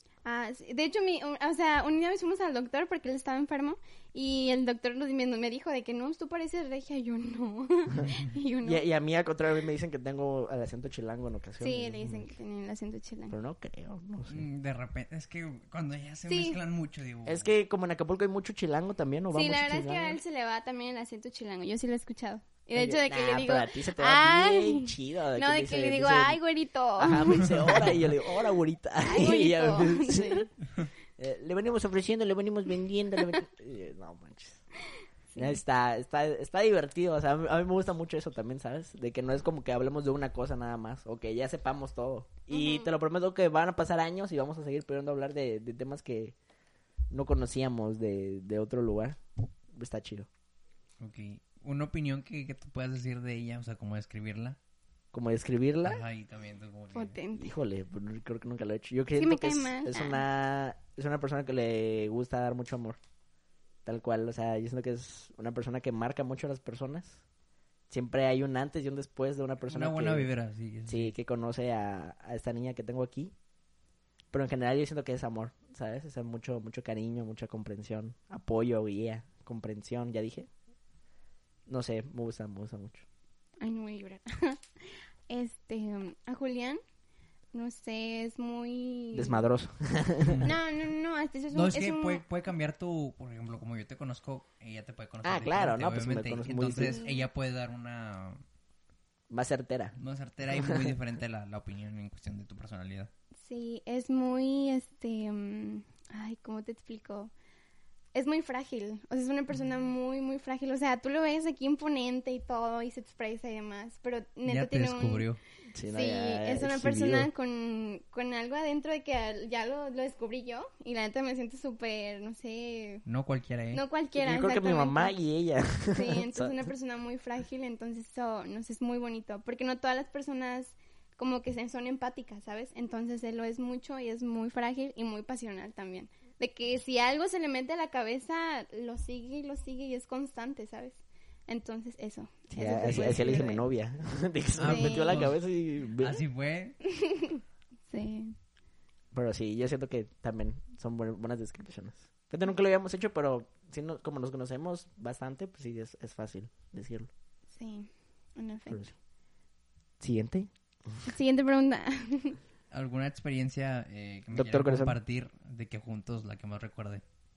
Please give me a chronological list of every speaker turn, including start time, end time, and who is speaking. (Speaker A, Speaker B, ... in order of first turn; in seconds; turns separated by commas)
Speaker A: 0.2-8.8, Speaker B: 8.6-12.3, Speaker A: 11.6-13.4, Speaker B: 13.3-14.4, Speaker C: 14.3-17.5, Speaker A: 16.3-16.6, Speaker B: 17.3-20.2, Speaker A: 19.3-28.4, Speaker B: 22.8-26.4, Speaker B: 27.0-30.5, Speaker A: 29.0-30.5, Speaker B: 31.2-34.6, Speaker A: 35.3-35.6, Speaker B: 35.4-46.4, Speaker A: 42.5-42.9, Speaker B: 47.1-49.2, Speaker B: 49.7-50.3, Speaker C: 51.0-54.6, Speaker B: 55.1-56.0, Speaker C: 55.9-57.2, Speaker A: 57.0-57.5, Speaker B: 57.4-63.0, Speaker A: 59.2-60.2, Speaker B: 63.9-67.2, Speaker B: 67.9-70.3, Speaker C: 69.7-71.1, Speaker B: 70.9-73.3, Speaker B: 74.3-80.5, Speaker B: 81.7-83.0, Speaker A: 83.6-86.8, Speaker A: 87.5-89.4, Speaker B: 89.1-90.5, Speaker A: 90.5-92.2, Speaker C: 91.5-98.4, Speaker B: 95.2-97.0, Speaker A: 96.8-97.3, Speaker B: 99.3-100.0, Speaker C: 100.0-103.1, Speaker B: 100.5-101.0, Speaker A: 103.4-107.3, Speaker A: 108.1-115.3, Speaker C: 114.5-115.4, Speaker B: 115.7-117.3, Speaker A: 115.9-123.0, Speaker C: 123.1-123.8, Speaker A: 123.7-125.2, Speaker B: 124.2-126.7, Speaker A: 125.9-143.6, Speaker B: 142.5-146.2, Speaker C: 144.6-145.4, Speaker A: 144.7-145.2, Speaker C: 146.0-146.8, Speaker A: 146.9-148.4, Speaker B: 149.1-157.1, Speaker A: 157.5-158.8, Speaker B: 160.0-161.1, Speaker A: 161.1-162.4, Speaker C: 162.7-167.0, Speaker B: 164.3-165.0